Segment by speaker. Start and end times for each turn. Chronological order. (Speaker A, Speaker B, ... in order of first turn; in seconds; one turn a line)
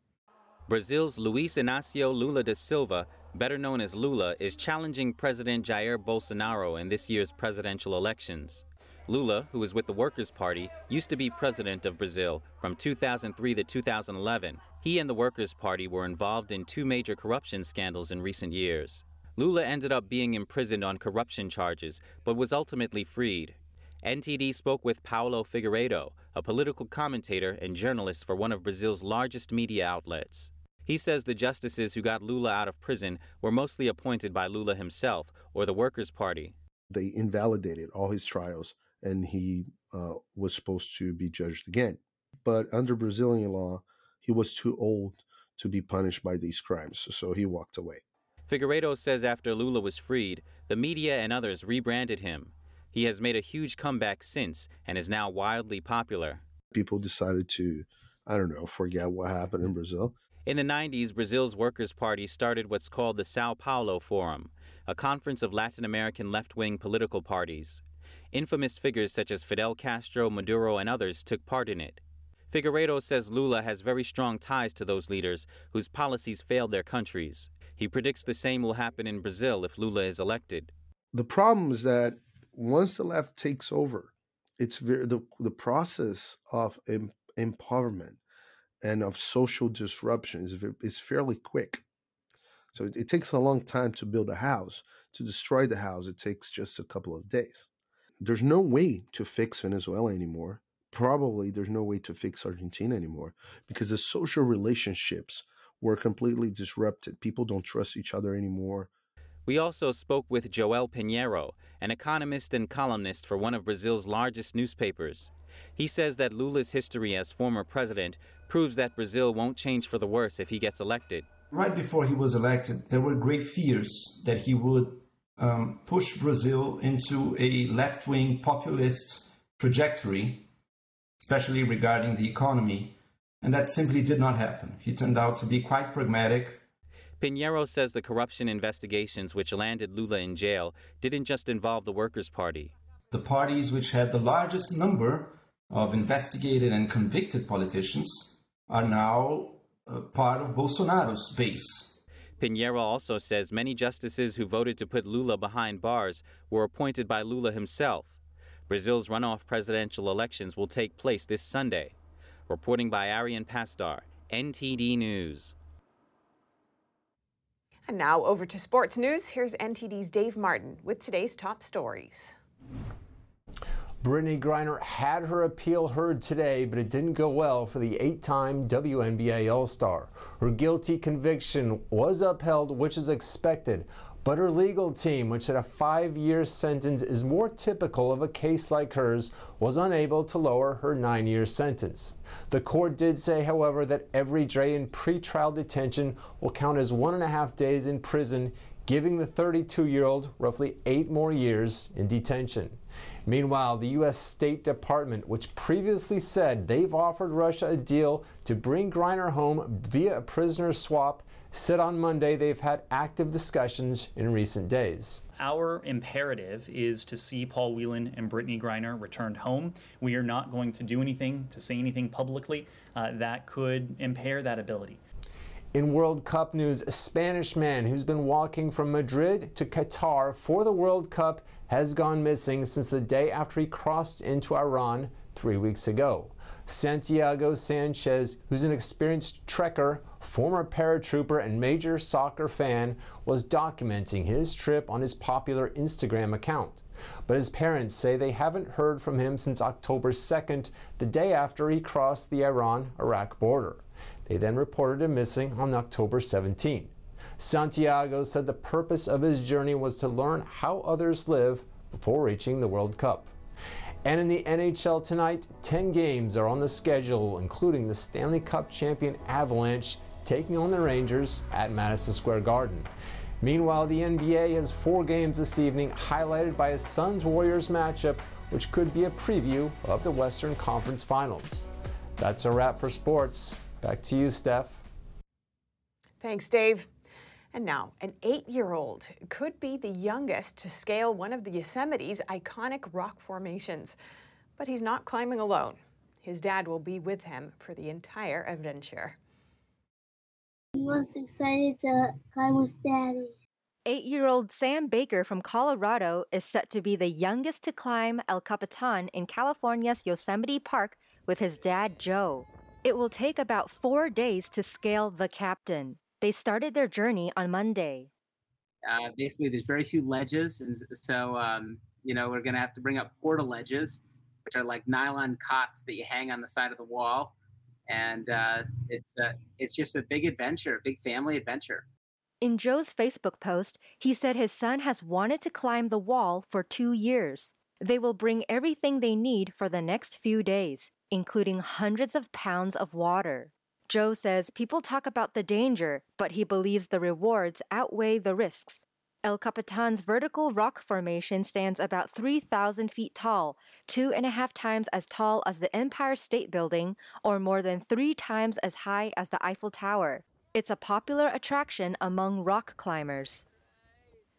Speaker A: 0.7-36.5
Speaker B: 36.9-48.0
Speaker A: 48.5-56.4
Speaker B: 56.7-60.1
Speaker A: 60.5-80.7
Speaker B: 81.1-88.2
Speaker B: 88.8-91.8
Speaker B: 92.7-97.7
Speaker B: 98.2-108.9
Speaker A: 109.5-121.3
Speaker C: 121.5-130.5
Speaker C: 131.2-136.6
Speaker A: 137.2-142.7
Speaker C: 143.1-152.0
Speaker A: 152.4-158.2
Speaker A: 158.7-161.9
Speaker A: 162.5-165.5
Speaker D: 167.9-172.3
Speaker E: 174.0-215.2
Speaker F: 215.4-225.0
Speaker E: 225.7-263.3
Speaker E: 264.0-272.9
Speaker E: 273.4-284.8
Speaker D: 286.2-286.9
Speaker D: 287.5-293.9
Speaker D: 294.6-299.2
Speaker G: 300.8-303.3
Speaker H: 303.9-318.1
Speaker I: 318.9-327.3
Speaker I: 327.9-331.9
Speaker H: 332.4-363.4